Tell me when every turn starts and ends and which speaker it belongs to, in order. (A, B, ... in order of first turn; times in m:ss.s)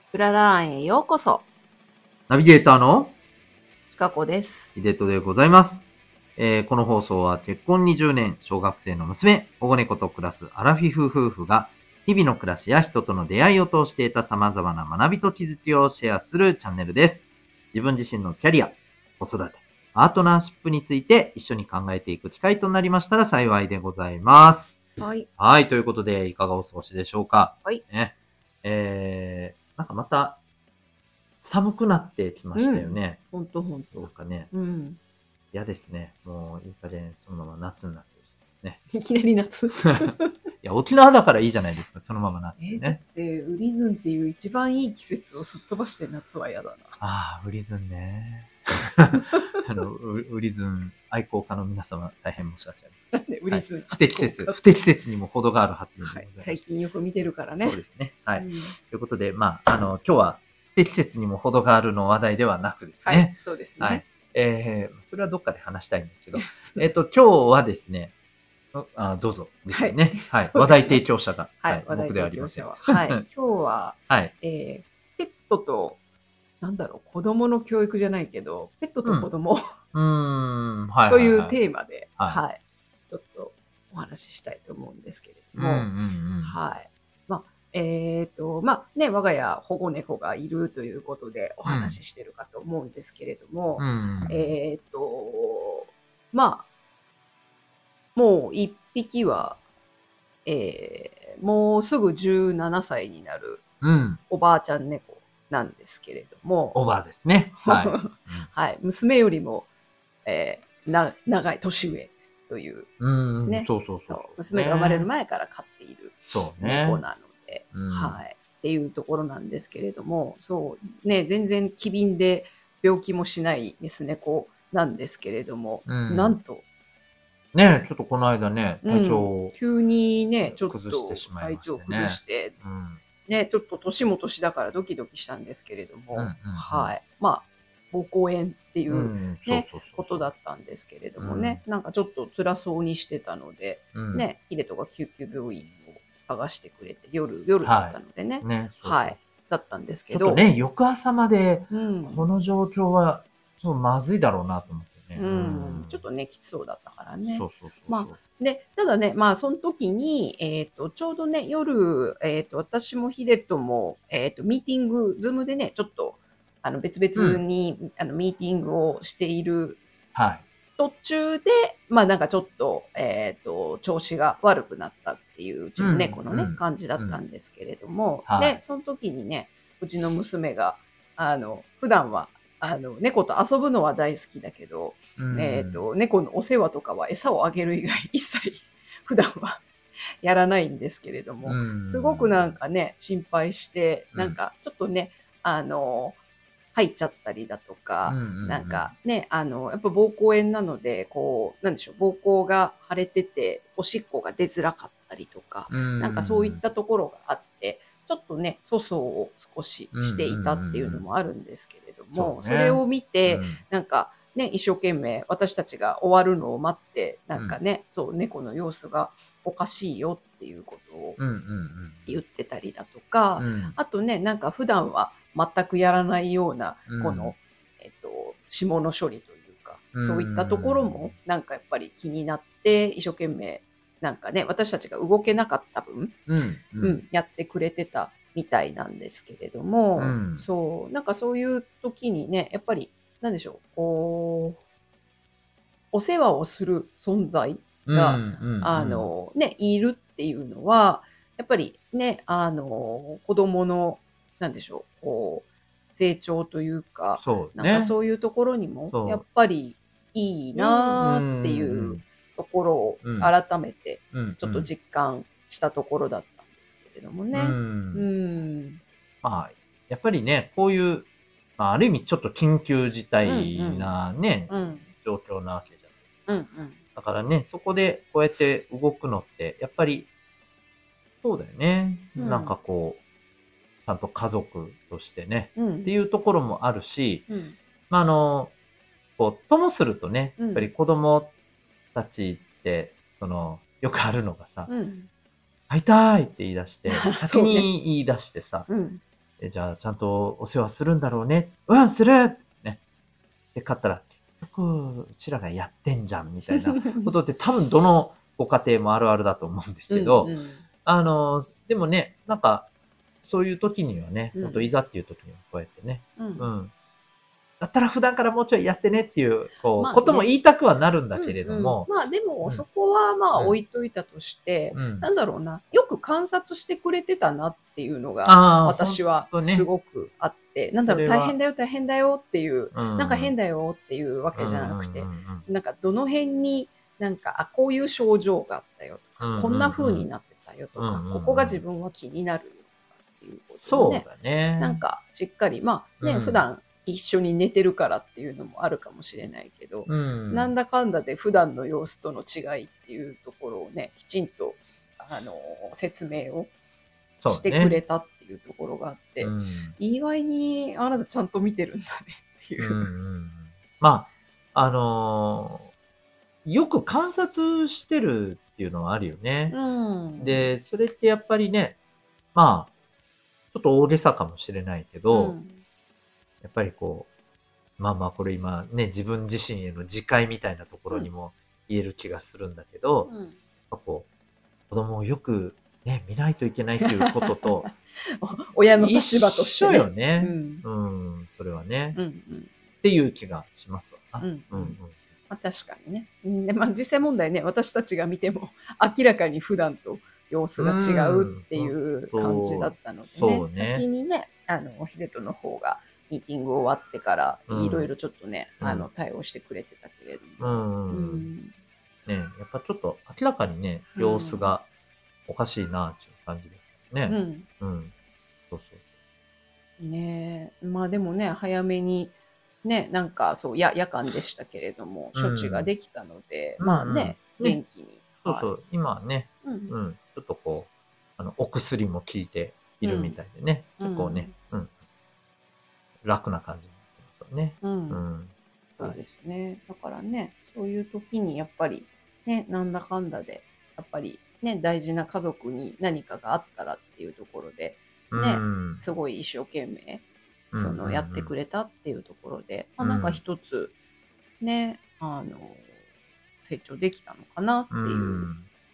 0:00.1-0:01.5 A
0:02.3-0:03.2 B
0:03.9-0:04.8 A
0:04.8-0:05.9 B
0:06.4-0:30.4 B
0:25.0-0:25.3 A
0:31.4-0:33.2 B
0:32.6-0:35.0 A
0:33.9-0:34.5 B
0:35.5-0:38.8 B
0:38.9-0:40.3 A
0:40.0-0:43.0 B
0:42.6-0:47.0 A
0:47.0-0:56.6 B
0:53.1-0:54.6 A
0:56.0-0:57.8 A
0:57.5-1:08.1 B
0:58.4-0:58.8 A
1:03.0-1:04.0 A
1:06.3-1:06.9 A
1:08.7-1:12.8 B
1:09.7-1:11.0 A
1:11.6-1:16.0 A
1:16.6-1:19.6 A
1:19.0-1:19.3 B
1:19.9-1:21.6 B
1:21.1-1:25.9 A
1:25.6-1:26.6 B
1:26.4-1:36.7 A
1:31.6-1:32.0 B
1:33.8-1:34.5 B
1:38.2-1:39.6 A
1:40.4-1:43.6 A
1:43.8-1:44.2 B
1:44.3-1:46.8 A
1:46.7-1:48.5 B
1:47.6-1:49.7 A
1:50.2-1:52.9 A
1:53.0-1:55.1 B
1:53.5-2:06.6 A
1:56.3-1:57.0 B
1:57.7-1:58.2 B
2:05.9-2:06.4 B
2:07.5-2:09.6 B
2:08.8-2:12.6 A
2:10.4-2:13.0 B
2:13.3-2:30.4 A
2:16.1-2:16.9 B
2:18.9-2:20.3 B
2:21.2-2:21.6 B
2:23.9-2:24.3 B
2:27.6-2:29.2 B
2:30.1-2:36.0 B
2:31.7-2:32.3 A
2:35.2-2:49.8 A
2:37.3-2:38.2 B
2:47.2-2:47.4 B
2:50.1-2:50.4 B
2:50.8-3:09.6 A
2:55.8-2:57.2 B
2:58.3-2:58.6 B
3:05.2-3:05.9 B
3:10.2-3:16.2 A
3:11.4-3:12.5 B
3:16.7-3:41.2 A
3:18.1-3:18.9 B
3:25.7-3:26.6 B
3:29.9-3:31.1 B
3:32.1-3:33.6 B
3:41.2-3:42.2 B
3:42.1-3:56.2 A
3:43.4-3:43.8 B
3:46.9-3:47.3 B
3:50.0-3:51.1 B
3:56.3-3:57.0 B
3:56.8-4:04.6 A
4:00.0-4:00.4 B
4:05.9-4:28.8 A
4:07.9-4:09.1 B
4:17.2-4:18.0 B
4:18.9-4:19.2 B
4:20.6-4:22.0 B
4:23.0-4:23.3 B
4:24.1-4:24.7 B
4:27.3-4:28.1 B
4:29.2-4:35.9 B
4:33.2-4:33.9 A
4:34.5-4:34.9 A
4:36.3-4:36.8 A
4:37.0-4:40.1 B
4:41.2-4:43.0 B
4:42.2-4:42.6 A
4:43.9-4:47.3 B
4:45.6-4:45.9 A
4:47.3-4:47.6 A
4:47.9-4:48.5 B
4:49.2-4:51.3 B
4:50.4-4:50.7 A
4:51.9-4:54.7 B
4:54.7-4:55.1 A
4:55.7-4:58.7 B
4:56.9-4:57.7 A
4:58.7-4:59.0 A
4:59.4-5:02.8 B
5:03.6-5:12.7 B
5:06.5-5:07.1 A
5:09.9-5:10.6 A
5:13.2-5:16.7 B
5:14.4-5:14.7 A
5:16.2-5:16.5 A
5:17.6-5:21.9 B
5:19.8-5:20.3 A
5:21.1-5:44.1 A
5:24.7-5:25.1 B
5:28.2-5:29.7 B
5:30.7-5:31.4 B
5:32.7-5:33.3 B
5:34.3-5:35.5 B
5:39.2-5:40.1 B
5:40.8-5:41.6 B
5:43.6-5:44.8 B
5:44.6-5:56.5 A
5:46.0-5:46.4 B
5:49.9-5:50.5 B
5:57.2-5:57.8 B
5:57.3-6:02.9 A
5:59.2-5:59.8 B
6:02.6-6:05.7 B
6:06.4-6:09.6 B
6:09.5-6:10.5 A
6:10.2-6:11.8 B
6:12.4-6:12.7 B
6:13.5-6:15.4 B
6:15.1-6:15.6 A
6:16.4-6:17.1 B
6:17.8-6:23.1 B
6:23.1-6:23.4 A
6:23.7-6:24.1 B
6:24.7-6:27.7 B
6:26.8-6:30.6 A
6:28.8-6:32.0 B
6:32.0-6:32.6 A
6:32.8-6:35.0 B
6:34.2-6:34.8 A
6:35.3-6:51.5 A
6:40.6-6:43.8 B
6:47.5-6:47.9 B
6:48.6-6:48.9 B
6:50.4-6:51.3 B
6:52.1-6:54.7 B
6:54.0-6:54.5 A
6:55.3-6:57.9 B
6:57.1-6:57.5 A
6:58.5-6:58.8 B
6:59.8-7:08.5 A
7:05.1-7:05.7 B
7:06.6-7:07.6 B
7:08.2-7:14.7 B
7:09.4-7:09.8 A
7:12.8-7:13.2 A
7:13.8-7:14.4 A
7:16.0-7:19.0 B
7:17.6-7:18.0 A
7:18.8-7:33.8 A
7:28.1-7:28.8 B
7:30.5-7:31.3 B
7:32.8-7:33.2 B
7:34.4-7:35.7 A
7:36.4-7:38.3 A
7:37.7-7:38.5 B